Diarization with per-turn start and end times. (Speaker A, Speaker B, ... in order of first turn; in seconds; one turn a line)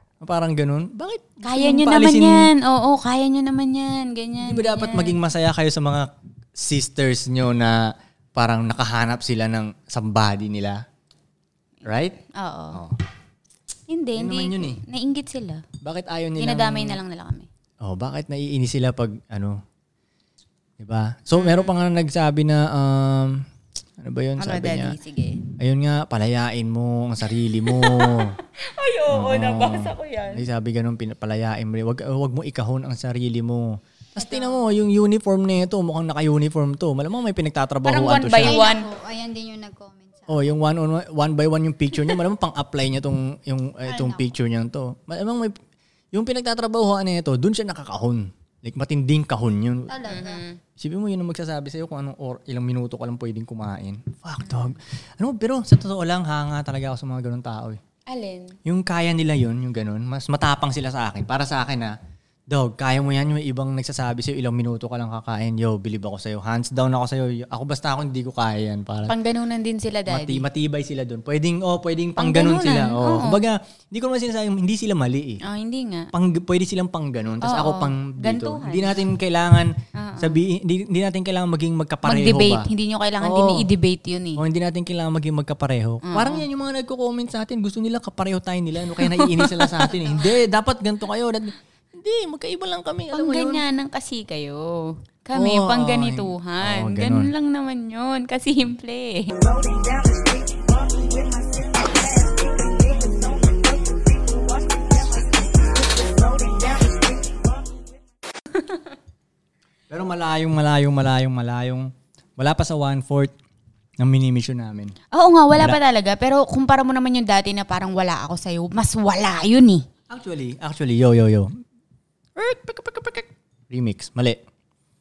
Speaker A: 0.2-2.5
Speaker B: 1.4-5.2
Speaker A: 4.4-10.8
Speaker A: 11.8-12.2
Speaker B: 11.9-12.8
Speaker A: 12.7-13.0
Speaker B: 13.9-15.7
Speaker A: 14.2-14.8
Speaker A: 15.8-17.0
Speaker B: 16.4-17.5
Speaker A: 17.8-19.6
Speaker A: 20.8-23.5
Speaker B: 21.4-21.7
Speaker A: 24.0-25.0
Speaker B: 24.4-25.4
Speaker A: 25.6-28.4
Speaker B: 27.6-30.4
Speaker A: 29.1-38.6
Speaker B: 34.2-34.5
Speaker B: 37.8-38.9
Speaker C: 38.4-40.5
Speaker A: 40.3-45.6
Speaker C: 43.9-44.2
Speaker A: 46.1-50.1
Speaker C: 49.9-50.4
Speaker B: 50.1-50.6
Speaker A: 50.8-57.8
Speaker B: 58.1-58.6
Speaker A: 58.7-62.0
Speaker A: 62.5-69.2
Speaker B: 69.1-70.5
Speaker A: 70.1-75.4
Speaker B: 72.2-73.4
Speaker B: 75.4-76.1
Speaker A: 76.1-82.7
Speaker B: 77.4-79.0
Speaker B: 80.0-80.4
Speaker B: 82.0-84.4
Speaker A: 83.2-83.7
Speaker A: 84.4-93.6
Speaker B: 86.0-86.5
Speaker B: 89.0-90.0
Speaker B: 93.1-99.4
Speaker A: 95.3-97.3
Speaker C: 99.5-100.3
Speaker C: 102.2-103.5
Speaker A: 109.9-113.3
Speaker A: 114.0-115.0
Speaker B: 115.1-119.9
Speaker A: 120.1-121.5
Speaker A: 122.4-124.4